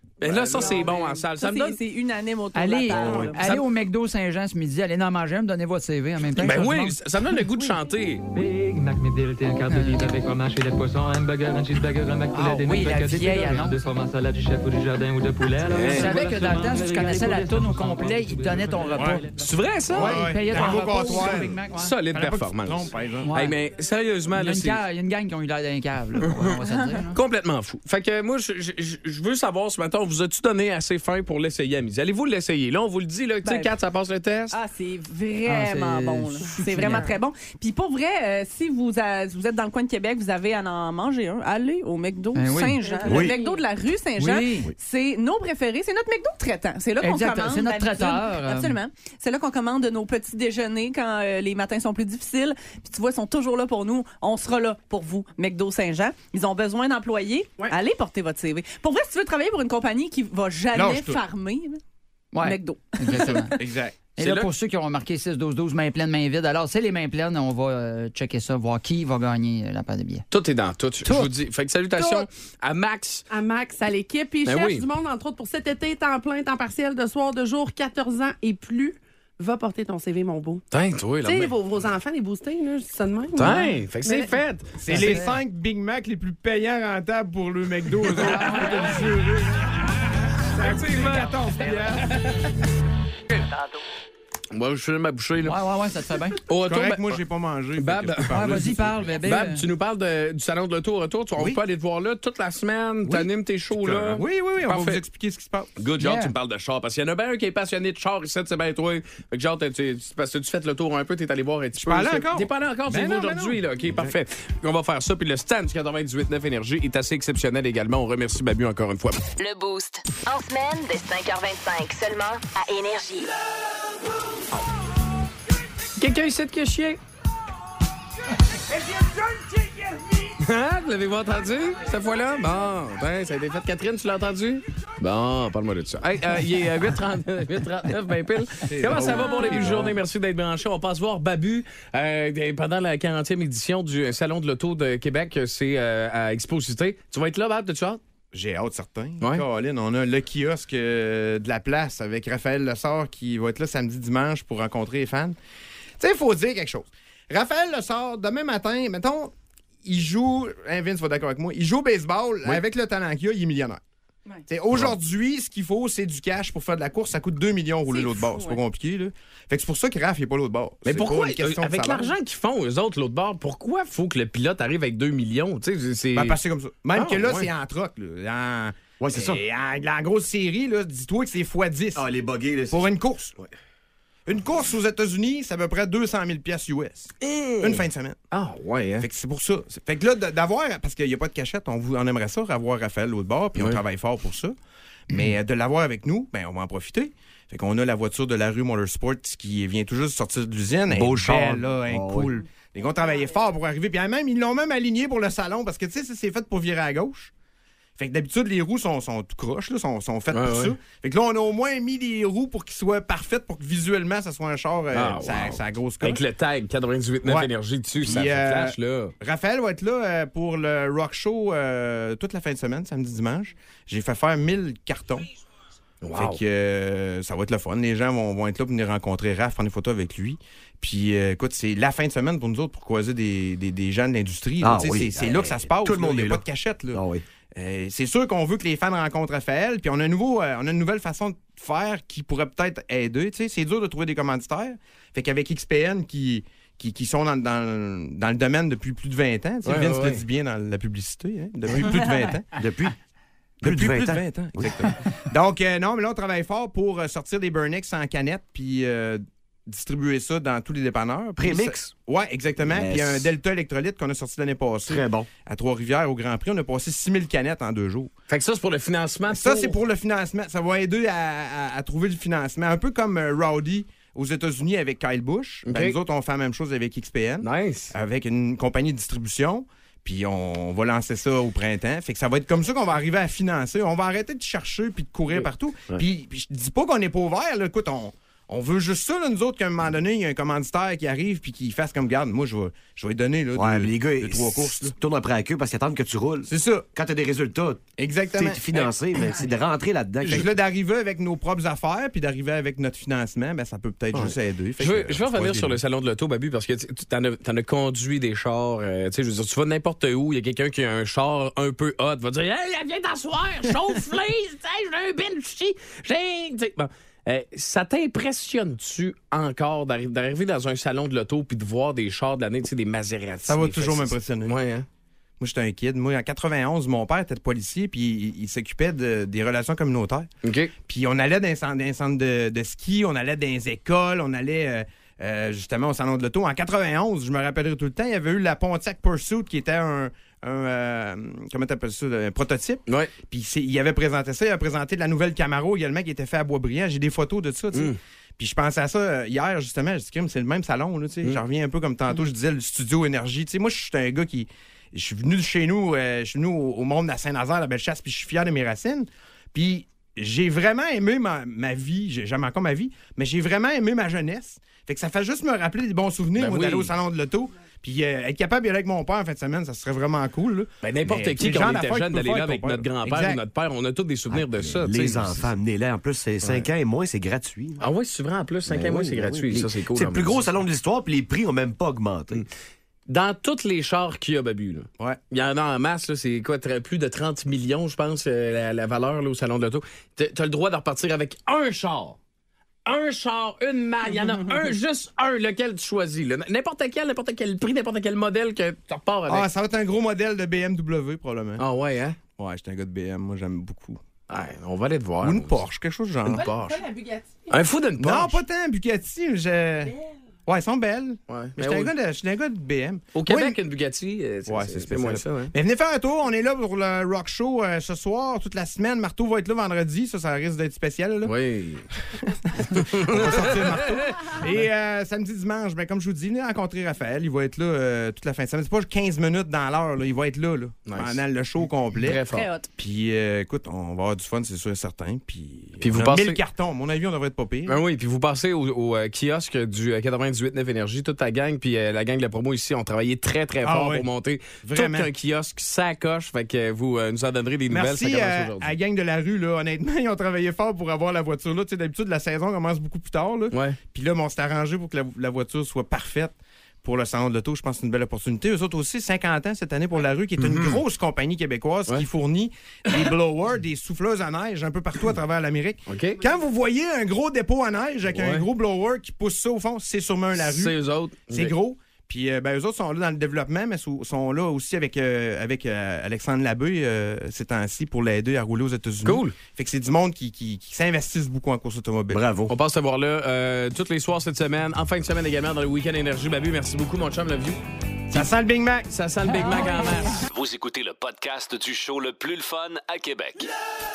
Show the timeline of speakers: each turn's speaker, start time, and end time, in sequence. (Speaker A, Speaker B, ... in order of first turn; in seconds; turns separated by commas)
Speaker A: 0.2-1.8, Speaker B: 0.5-3.6, Speaker C: 2.5-7.0, Speaker D: 2.9-3.4, Speaker A: 6.4-8.2, Speaker E: 8.3-19.3, Speaker C: 9.7-10.2, Speaker C: 12.3-13.8, Speaker A: 15.7-16.2, Speaker C: 15.8-21.9, Speaker F: 18.9-19.3, Speaker A: 19.3-24.8, Speaker F: 19.9-23.4, Speaker C: 23.2-23.6, Speaker C: 24.3-27.2, Speaker A: 26.2-26.6, Speaker A: 27.1-34.5, Speaker B: 33.4-33.7, Speaker B: 34.5-61.8, Speaker C: 35.5-37.1, Speaker C: 42.3-42.8, Speaker G: 42.9-43.6, Speaker D: 43.1-43.3, Speaker C: 44.2-44.7, Speaker C: 47.0-48.8, Speaker F: 60.7-61.2, Speaker C: 62.3-63.6, Speaker B: 62.4-63.5, Speaker F: 63.2-64.4, Speaker C: 64.2-70.2, Speaker A: 70.3-73.2, Speaker C: 71.0-71.3, Speaker G: 72.0-72.2, Speaker G: 73.3-80.6, Speaker A: 74.4-74.8, Speaker A: 80.7-81.5, Speaker G: 81.2-84.3, Speaker A: 83.3-85.1, Speaker F: 84.8-89.9, Speaker C: 84.9-85.3, Speaker A: 88.2-88.8, Speaker C: 88.2-89.1, Speaker F: 90.5-92.2, Speaker A: 90.5-92.5, Speaker A: 94.5-95.6, Speaker C: 95.4-96.4, Speaker A: 96.5-97.2, Speaker F: 96.6-99.0, Speaker A: 97.8-105.0, Speaker C: 98.3-99.6, Speaker F: 101.4-101.6, Speaker F: 103.0-105.8, Speaker A: 105.8-119.2, Speaker C: 106.0-106.3, Speaker F: 111.8-114.1, Speaker H: 119.4-123.3, Speaker A: 126.0-127.0, Speaker C: 129.0-129.6, Speaker A: 130.4-148.0, Speaker F: 138.7-140.0, Speaker F: 148.3-155.3, Speaker F: 156.0-159.3, Speaker F: 159.8-163.8, Speaker F: 164.5-172.1, Speaker B: 167.9-168.6, Speaker A: 170.8-176.4, Speaker F: 176.1-182.1, Speaker A: 176.9-177.5, Speaker D: 179.0-179.4, Speaker D: 181.9-182.9, Speaker F: 182.7-183.3, Speaker F: 184.3-188.2, Speaker A: 187.2-189.1, Speaker F: 189.0-194.5, Speaker A: 193.6-193.8, Speaker F: 195.1-207.3, Speaker D: 200.9-202.3, Speaker F: 208.0-216.2, Speaker A: 210.3-210.8, Speaker A: 214.9-219.1, Speaker F: 217.2-225.3, Speaker A: 226.0-226.4, Speaker F: 226.1-237.0, Speaker D: 234.6-237.2, Speaker F: 237.6-252.6, Speaker A: 249.6-250.2, Speaker D: 252.6-252.9, Speaker F: 253.6-268.1, Speaker D: 253.6-254.9, Speaker D: 261.4-261.9, Speaker D: 262.6-263.3, Speaker D: 264.9-265.3, Speaker A: 268.3-269.8, Speaker F: 269.3-294.9, Speaker A: 275.6-275.9, Speaker A: 277.4-277.9, Speaker D: 293.5-297.8, Speaker F: 296.5-296.8, Speaker F: 298.0-298.9, Speaker D: 298.4-300.6, Speaker F: 300.2-305.8, Speaker A: 304.1-324.9, Speaker F: 323.4-324.6, Speaker F: 325.4-330.3, Speaker A: 330.4-330.7, Speaker F: 330.8-373.4, Speaker A: 366.4-366.9, Speaker A: 370.8-375.5, Speaker D: 374.3-377.9, Speaker A: 376.4-376.7, Speaker A: 377.8-380.4, Speaker D: 378.6-382.4, Speaker A: 383.1-392.2, Speaker A: 392.9-399.5, Speaker F: 399.3-401.7, Speaker A: 401.6-402.2, Speaker F: 402.4-404.0, Speaker A: 404.3-405.6, Speaker F: 405.2-406.7, Speaker G: 406.3-407.6, Speaker A: 406.3-406.6, Speaker A: 407.5-408.4, Speaker F: 408.0-409.9, Speaker F: 410.5-413.6, Speaker A: 411.3-411.9, Speaker A: 413.1-415.5, Speaker F: 414.4-421.4, Speaker A: 421.2-421.8, Speaker F: 422.2-432.2, Speaker A: 422.8-424.1, Speaker A: 430.9-431.2, Speaker A: 432.0-432.5, Speaker B: 432.3-432.7, Speaker F: 432.8-437.8, Speaker A: 435.8-436.4, Speaker A: 437.7-448.7, Speaker F: 443.6-444.1, Speaker F: 444.6-445.1, Speaker F: 447.7-482.3, Speaker A: 453.5-453.8, Speaker A: 460.4-460.8, Speaker A: 465.9-466.2, Speaker A: 468.1-468.4, Speaker A: 470.4-471.5, Speaker A: 479.0-479.4, Speaker D: 482.1-482.5, Speaker A: 482.5-487.6, Speaker F: 488.1-488.9, Speaker A: 488.9-490.2, Speaker I: 490.2-493.5